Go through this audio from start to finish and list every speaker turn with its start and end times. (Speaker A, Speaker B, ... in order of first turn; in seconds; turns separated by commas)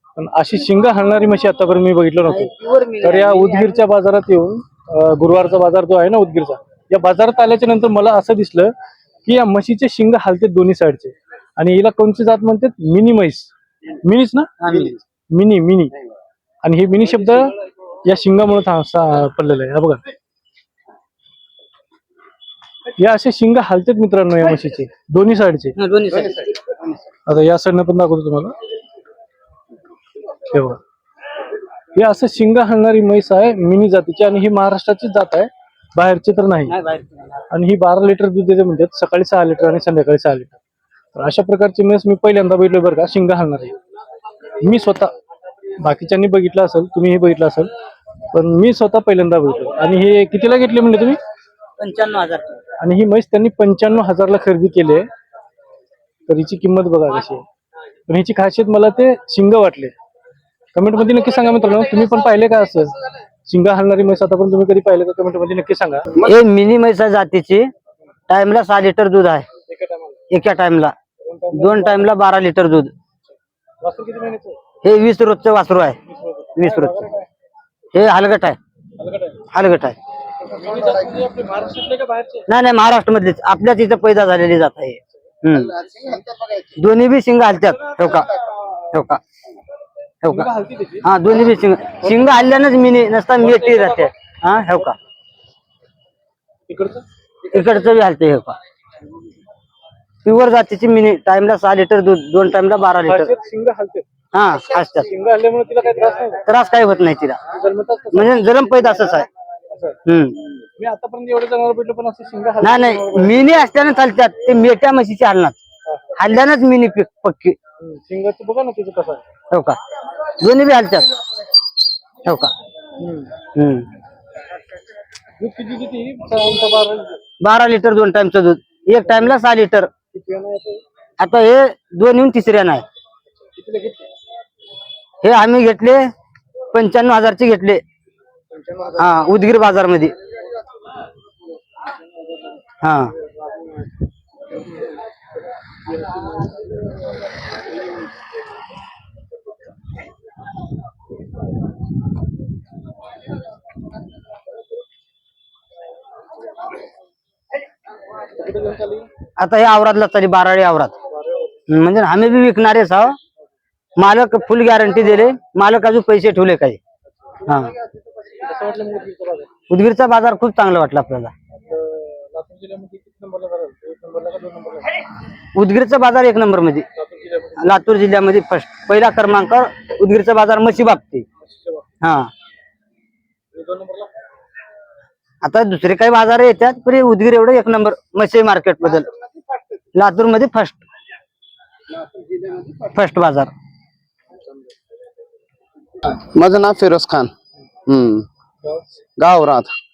Speaker A: 0.1-8.7, Speaker B: 2.3-3.8, Speaker A: 9.2-13.5, Speaker A: 14.0-15.9, Speaker B: 14.6-15.0, Speaker A: 16.6-17.5, Speaker A: 18.0-20.0, Speaker A: 23.0-25.8, Speaker B: 25.8-26.8, Speaker A: 27.2-28.6, Speaker A: 30.5-30.8, Speaker A: 31.9-36.8, Speaker B: 36.7-37.5, Speaker A: 37.5-40.6, Speaker A: 41.1-43.7, Speaker A: 44.6-45.1, Speaker A: 45.8-47.7, Speaker A: 48.3-51.2, Speaker B: 51.8-52.6, Speaker A: 52.8-55.1, Speaker A: 56.3-57.4, Speaker A: 58.1-59.9, Speaker A: 60.7-66.1, Speaker B: 66.2-67.7, Speaker B: 68.3-69.5, Speaker A: 69.7-70.2, Speaker B: 70.3-70.9, Speaker A: 71.2-72.1, Speaker B: 71.5-72.9, Speaker A: 73.8-74.6, Speaker B: 74.8-76.0, Speaker A: 76.1-77.3, Speaker B: 76.5-77.1, Speaker B: 77.9-78.6, Speaker A: 79.0-79.5, Speaker B: 79.5-80.0, Speaker A: 80.4-82.5, Speaker B: 82.5-85.7, Speaker C: 85.5-86.7, Speaker B: 86.8-88.3, Speaker B: 88.9-89.2, Speaker B: 90.2-90.5, Speaker A: 90.3-91.1, Speaker B: 91.0-94.9, Speaker A: 92.0-92.5, Speaker A: 93.3-94.1, Speaker A: 96.7-97.0, Speaker B: 97.5-98.6, Speaker B: 100.2-103.3, Speaker A: 103.0-104.1, Speaker B: 104.3-105.1, Speaker A: 104.9-106.4, Speaker B: 106.5-107.4, Speaker A: 107.5-108.7, Speaker B: 108.1-109.3, Speaker A: 109.7-110.0, Speaker B: 110.0-110.4, Speaker A: 110.8-113.7, Speaker B: 112.6-115.6, Speaker A: 115.8-116.1, Speaker B: 116.1-117.6, Speaker A: 117.8-119.2, Speaker B: 119.5-119.8, Speaker B: 120.4-121.1, Speaker B: 122.2-122.5, Speaker A: 123.0-123.3, Speaker B: 123.5-123.9, Speaker A: 125.4-127.2, Speaker B: 127.4-129.9, Speaker A: 130.1-130.8, Speaker B: 131.2-132.8, Speaker A: 133.6-134.1, Speaker B: 135.2-136.1, Speaker B: 136.7-137.8, Speaker A: 138.5-139.2, Speaker B: 138.9-140.1, Speaker B: 142.8-143.1, Speaker A: 143.2-143.6, Speaker A: 145.9-146.5, Speaker A: 158.3-159.1, Speaker B: 159.4-160.9, Speaker A: 161.1-161.6, Speaker B: 161.7-163.2, Speaker B: 164.0-166.8, Speaker B: 167.4-167.7, Speaker A: 168.3-169.5, Speaker B: 169.7-171.3, Speaker A: 171.5-175.0, Speaker B: 175.5-176.8, Speaker A: 177.0-177.8, Speaker B: 177.6-181.2, Speaker A: 181.4-181.9, Speaker B: 182.0-182.3, Speaker A: 183.5-184.1, Speaker B: 185.4-189.1, Speaker B: 189.9-190.8, Speaker C: 192.1-192.7, Speaker B: 192.8-193.5, Speaker C: 196.2-197.3, Speaker C: 197.9-198.2, Speaker C: 199.2-199.7